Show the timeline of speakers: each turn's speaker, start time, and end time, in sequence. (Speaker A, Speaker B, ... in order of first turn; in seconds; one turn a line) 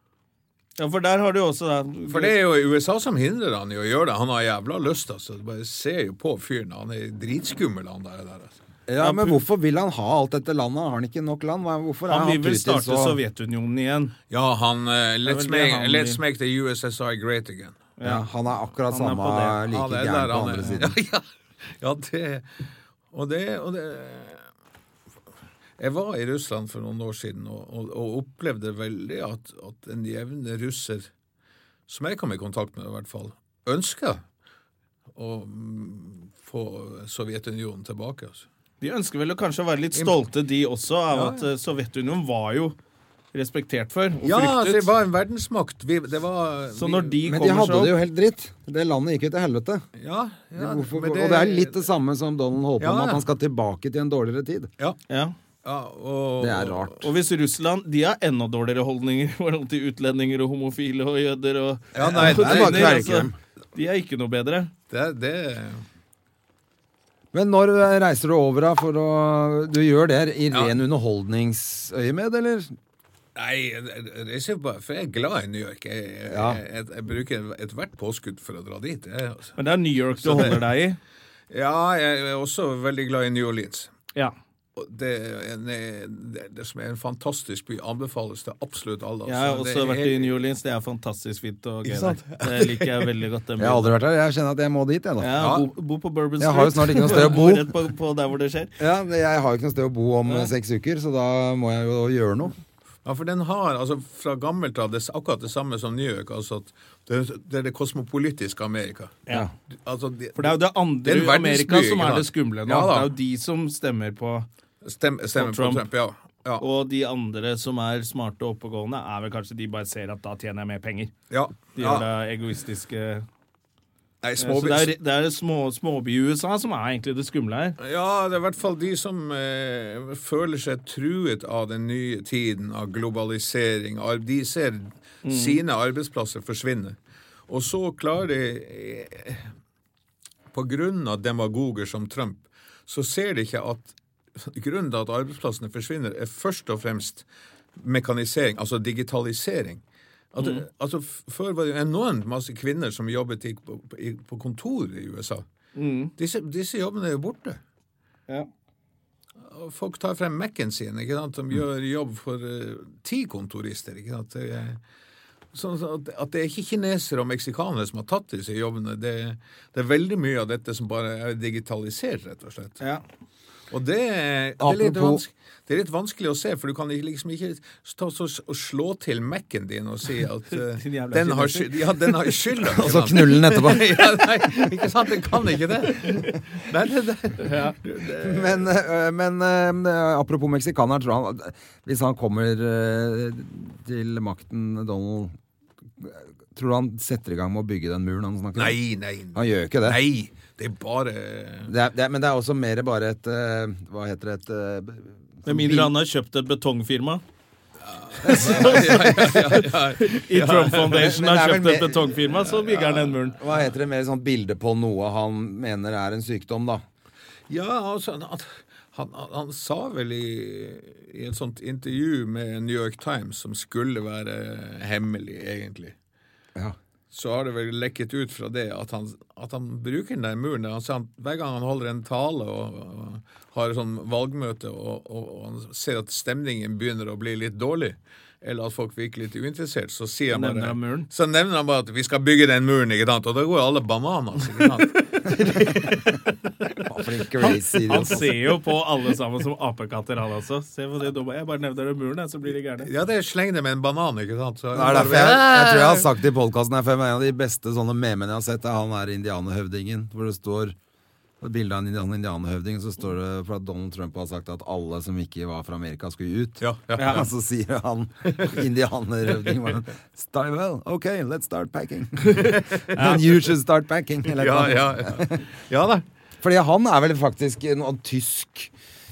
Speaker A: 0.8-2.4
Speaker B: 2.1-8.6
Speaker C: 8.9-13.2
Speaker A: 9.0-9.4
Speaker A: 12.1-14.2
Speaker B: 14.3-17.8
Speaker A: 15.3-16.2
Speaker A: 18.0-18.3
Speaker C: 18.0-20.9
Speaker A: 18.9-19.6
Speaker B: 19.7-24.4
Speaker B: 25.8-31.1
Speaker B: 31.9-34.2
Speaker B: 35.1-38.5
Speaker A: 38.8-42.8
Speaker B: 41.1-41.5
Speaker A: 43.3-44.9
Speaker B: 44.2-47.2
Speaker A: 46.8-48.0
Speaker C: 47.2-49.9
Speaker B: 50.0-51.9
Speaker C: 50.6-54.7
Speaker B: 52.8-53.2
Speaker A: 55.1-55.4
Speaker B: 55.6-57.1
Speaker C: 56.4-57.0
Speaker A: 57.0-64.7
Speaker B: 62.0-63.1
Speaker C: 62.0-63.4
Speaker B: 64.9-65.8
Speaker C: 67.3-72.8
Speaker B: 70.5-70.8
Speaker B: 73.4-79.6
Speaker C: 76.3-76.6
Speaker A: 79.6-81.0
Speaker B: 80.2-80.6
Speaker B: 81.5-83.9
Speaker B: 84.8-90.4
Speaker A: 89.3-94.0
Speaker B: 91.8-93.1
Speaker C: 93.6-95.4
Speaker A: 95.2-98.7
Speaker B: 95.4-95.7
Speaker C: 96.4-97.7
Speaker C: 98.8-102.5
Speaker B: 103.0-109.2
Speaker B: 109.8-113.1
Speaker A: 110.4-114.5
Speaker B: 114.8-116.7
Speaker A: 115.3-115.8
Speaker A: 116.6-121.1
Speaker B: 121.3-122.1
Speaker A: 121.8-123.2
Speaker B: 124.2-124.9
Speaker A: 124.4-127.8
Speaker B: 127.8-137.0
Speaker A: 135.2-135.6
Speaker B: 137.5-139.5
Speaker B: 140.5-149.8
Speaker B: 150.3-155.5
Speaker A: 150.4-150.6
Speaker A: 155.8-156.1
Speaker B: 156.2-157.6
Speaker B: 159.4-164.8
Speaker B: 165.5-172.8
Speaker B: 173.7-188.7
Speaker C: 174.6-175.2
Speaker A: 180.5-181.8
Speaker C: 182.6-184.8
Speaker A: 187.4-187.8
Speaker C: 188.2-195.3
Speaker C: 196.0-198.8
Speaker B: 198.6-201.7
Speaker C: 199.3-200.0
Speaker C: 201.7-205.9
Speaker A: 205.5-207.2
Speaker B: 207.9-211.1
Speaker A: 208.2-213.4
Speaker C: 208.2-209.7
Speaker C: 210.9-212.1
Speaker B: 212.3-213.3
Speaker C: 213.4-216.8
Speaker B: 217.5-225.9
Speaker B: 227.1-246.1
Speaker A: 240.3-241.1
Speaker C: 246.8-248.4
Speaker A: 247.5-252.9
Speaker B: 252.8-256.1
Speaker C: 254.7-260.8
Speaker C: 261.4-275.4
Speaker B: 266.6-267.3
Speaker A: 267.0-267.3
Speaker B: 272.5-273.0
Speaker A: 272.9-273.2
Speaker B: 274.3-276.1
Speaker C: 276.4-278.7